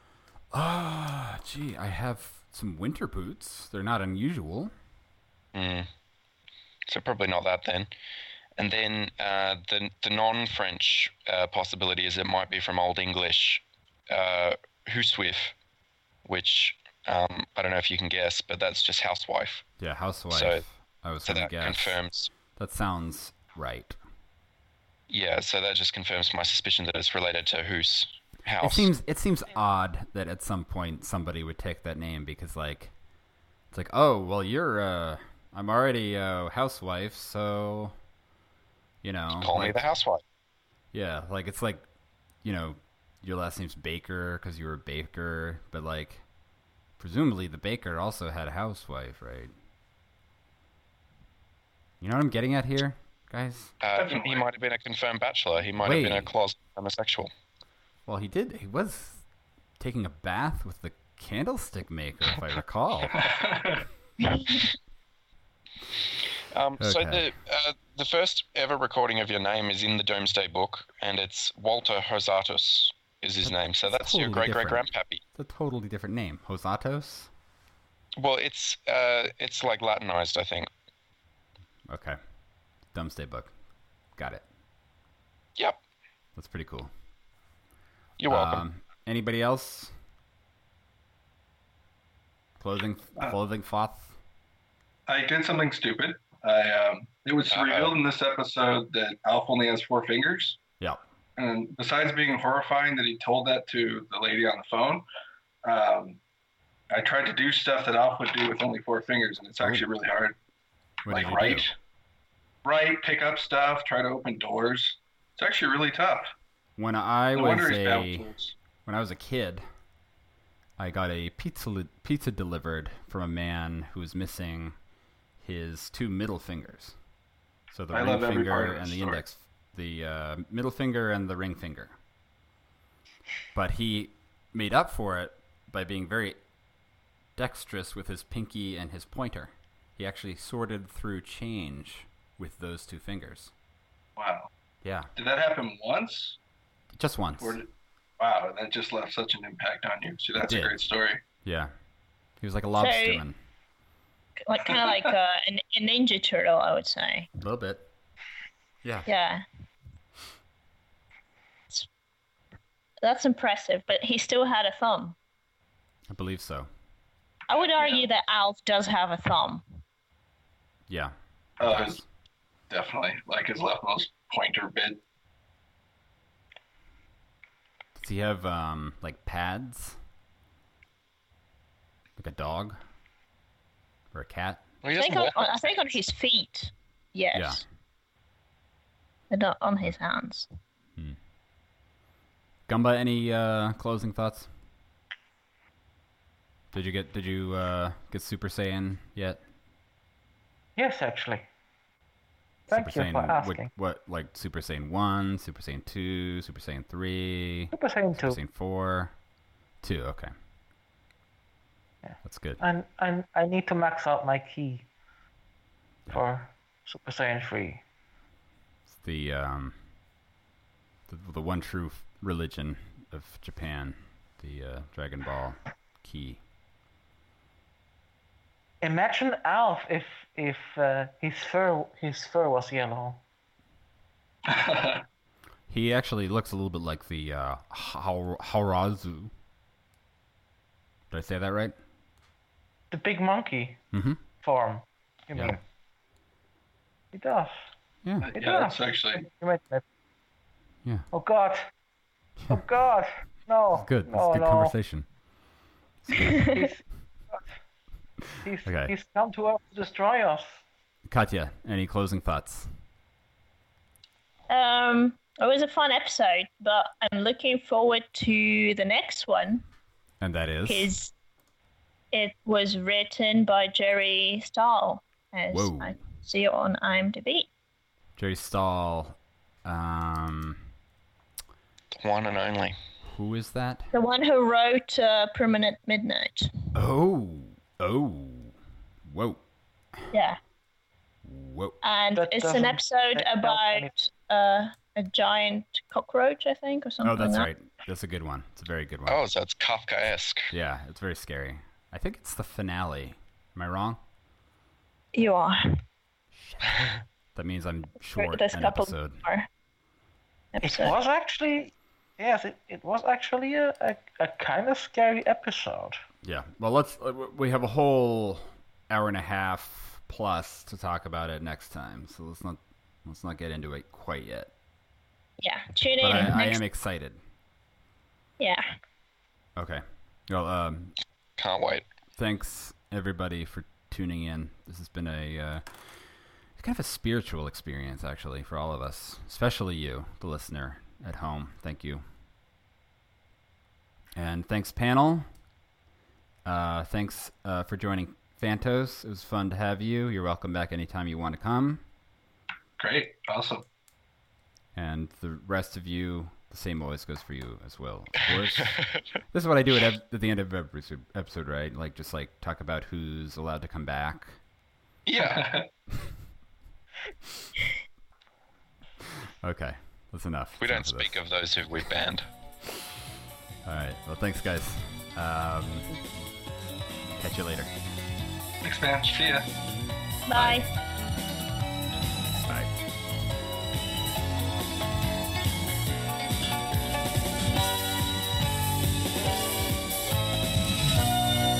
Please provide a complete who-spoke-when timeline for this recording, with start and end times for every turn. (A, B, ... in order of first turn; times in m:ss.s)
0:00.5-0:04.7 A
0:05.5-0:05.9 B
0:06.9-0:07.9 B
0:08.6-0:15.5 B
0:16.2-0:19.6 B
0:19.8-0:22.0 A
0:20.3-0:20.6 B
0:21.3-0:22.3 B
0:22.6-0:24.0 A
0:25.1-0:28.9 B
0:28.6-0:32.9 A
0:33.7-0:37.9 A
0:39.0-0:39.8 A
0:39.4-0:40.2 B
0:40.9-0:41.8 A
0:42.4-0:46.2 A
0:47.0-0:49.5 A
0:52.0-0:53.7 A
0:53.8-0:57.3 B
0:53.9-0:54.5 C
0:55.8-0:56.3 A
0:58.1-0:59.2 A
0:59.8-1:03.2 A
1:03.2-1:03.8 C
1:04.2-1:04.7 D
1:06.5-1:15.2 B
1:06.8-1:07.3 A
1:13.4-1:17.3 A
1:18.2-1:20.7 B
1:21.9-1:22.2 A
1:22.9-1:23.5 A
1:24.2-1:24.4 A
1:26.4-1:26.9 A
1:28.2-1:28.6 B
1:28.3-1:29.9 A
1:32.6-1:34.2 A
1:35.1-1:40.6 C
1:37.5-1:38.0 B
1:41.4-1:45.0 C
1:45.6-1:46.2 C
1:46.9-1:50.4 C
1:51.0-1:51.7 A
1:51.1-1:51.7 C
1:52.6-1:56.3 C
1:56.8-1:58.3 A
1:57.3-1:58.5 C
1:58.8-1:59.6 A
2:00.8-2:04.7 A
2:05.4-2:07.0 A
2:07.7-2:12.0 A
2:07.9-2:09.2 C
2:13.5-2:16.4 A
2:17.4-2:23.5 A
2:24.2-2:24.5 C
2:24.8-2:25.1 A
2:25.1-2:26.4 C
2:26.9-2:27.6 A
2:27.4-2:27.7 C
2:28.2-2:31.2 C
2:30.4-2:30.8 A
2:31.4-2:31.7 A
2:32.4-2:33.3 A
2:32.8-2:33.2 D
2:34.4-2:37.3 D
2:34.7-2:35.0 C
2:37.4-2:37.8 A
2:38.8-2:39.1 A
2:39.0-2:39.4 D
2:43.0-2:45.2 D
2:46.1-2:46.7 A
2:47.5-2:49.6 D
2:47.8-2:48.0 C
2:50.9-2:52.0 A
2:51.6-2:52.0 C
2:52.7-2:55.0 C
2:58.0-3:00.0 A
3:02.2-3:02.8 A
3:04.1-3:04.6 A
3:04.8-3:05.5 B
3:04.9-3:07.6 D
3:07.3-3:07.6 A
3:09.3-3:10.5 D
3:12.7-3:14.5 A
3:16.7-3:19.4 A
3:20.8-3:21.4 E
3:22.7-3:23.7 E
3:22.7-3:29.1 A
3:27.7-3:28.4 E
3:29.8-3:30.3 A
3:32.0-3:34.9 E
3:32.2-3:32.6 A
3:36.1-3:37.8 E
3:38.9-3:39.8 A
3:41.1-3:46.4 A
3:48.8-3:53.2 E
3:54.4-3:55.0 C
3:55.7-3:59.3 A
4:01.1-4:01.8 A
4:02.9-4:03.8 E
4:03.9-4:04.2 A
4:04.4-4:05.6 E
4:07.1-4:07.6 E
4:08.0-4:08.3 A
4:08.2-4:09.2 C
4:08.3-4:09.8 E
4:11.1-4:11.6 E
4:12.5-4:14.7 E
4:13.7-4:15.1 A
4:16.1-4:16.3 A
4:16.1-4:16.6 D
4:16.4-4:17.6 E
4:18.4-4:18.9 A
4:18.4-4:20.6 E
4:21.1-4:22.7 A
4:24.5-4:29.6 D
4:30.2-4:30.9 A
4:30.6-4:31.1 D
4:32.1-4:37.5 D
4:35.5-4:35.9 A
4:38.2-4:40.6 A
4:41.9-4:42.8 B
4:43.1-4:43.9 A
4:43.9-4:46.5 D
4:46.7-4:49.4 A
4:50.1-4:50.4 D
4:51.2-4:51.8 A
4:51.8-4:57.5 D
4:52.1-4:53.9 E
4:57.0-4:59.2 A
4:59.1-5:00.5 B
5:00.5-5:04.0 A
5:05.1-5:05.6 D
5:07.3-5:09.2 A
5:08.1-5:09.5 D
5:10.5-5:10.9 D
5:10.6-5:16.0 E
5:16.2-5:24.5 A
5:25.4-5:26.6 D
5:26.0-5:27.2 A
5:28.4-5:28.6 D
5:29.6-5:30.9 A
5:31.4-5:31.8 B
5:32.2-5:35.6 A
5:36.6-5:42.0 A
5:44.2-5:45.3 A
5:46.4-5:51.8 A
5:52.8-5:53.6 C
5:54.7-6:04.4 A
5:58.6-5:59.0 B
6:05.0-6:05.4 B
6:05.2-6:05.7 C
6:09.4-6:11.2 A
6:10.6-6:12.2 B
6:13.6-6:15.9 A
6:17.1-6:17.7 A
6:18.6-6:19.5 C
6:20.3-6:20.7 D
6:20.3-6:20.6 A
6:22.4-6:22.7 A